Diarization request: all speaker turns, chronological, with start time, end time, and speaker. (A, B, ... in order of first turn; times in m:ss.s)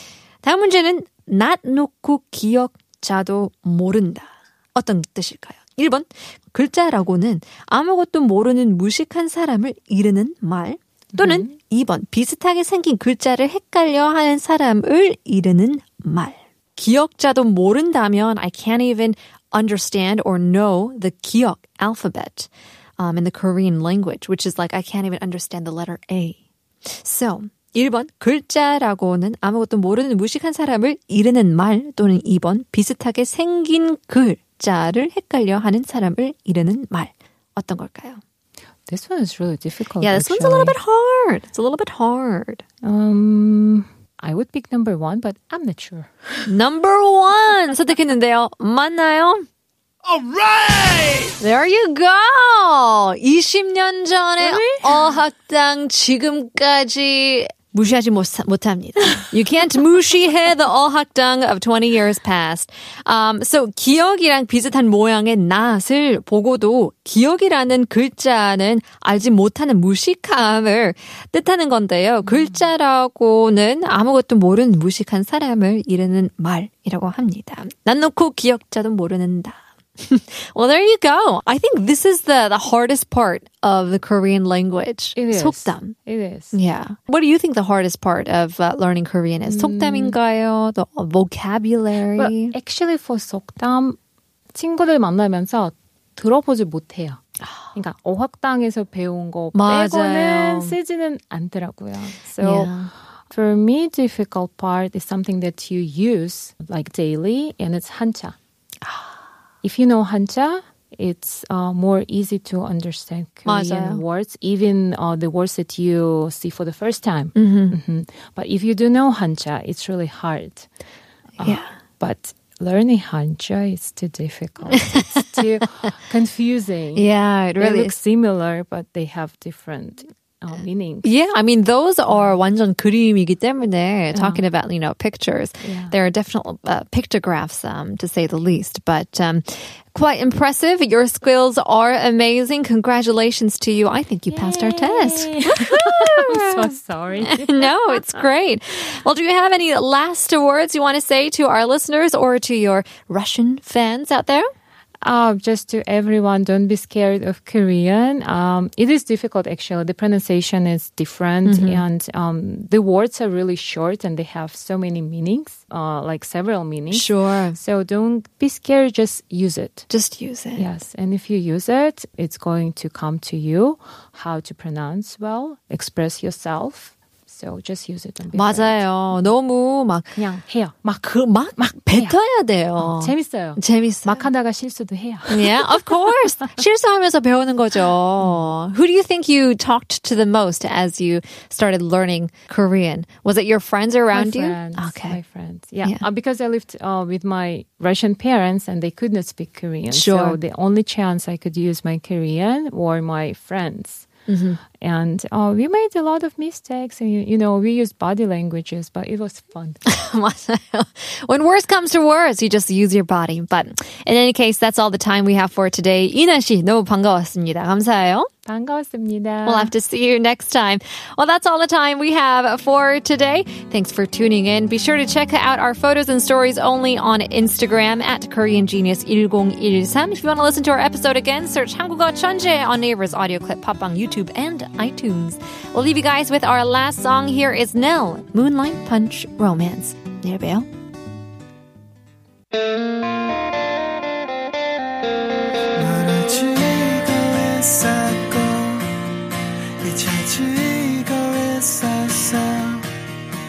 0:00.4-0:38.2 A
0:11.2-0:11.5 B
0:38.9-0:40.8 B
0:40.0-0:42.6 A
0:42.8-0:46.5 B
0:46.5-0:49.4 A
0:51.3-1:26.0 A
0:54.4-0:55.1 B
1:12.3-1:12.6 B
1:25.2-1:26.6 B
1:26.5-1:32.5 A
1:29.4-1:30.2 B
1:32.1-1:34.0 B
1:34.5-1:37.2 B
1:37.7-1:42.7 B
1:39.5-1:40.8 A
1:42.4-1:42.9 A
1:43.3-1:48.4 B
1:49.6-2:00.7 B
1:53.4-1:54.0 A
1:57.4-1:57.8 A
2:01.4-2:07.1 B
2:01.4-2:01.7 A
2:04.7-2:05.4 A
2:06.9-2:08.0 A
2:07.6-2:11.1 B
2:11.0-2:34.5 A
2:14.1-2:14.4 B
2:15.6-2:15.9 B
2:24.3-2:28.2 B
2:35.0-2:49.8 B
2:41.4-2:41.8 A
2:46.9-2:47.6 A
2:49.9-2:50.6 A
2:50.6-2:58.8 B
2:58.3-3:00.2 A
3:00.2-3:02.2 B
3:01.0-3:04.3 A
3:02.8-3:05.6 B
3:05.3-3:15.2 A
3:14.1-3:24.1 B
3:19.9-3:20.4 A
3:24.3-3:24.6 A
3:24.7-3:29.8 B
3:29.8-3:38.3 A
3:38.4-3:39.7 B
3:39.4-4:00.7 A
4:05.7-4:09.0 C
4:09.8-4:12.9 C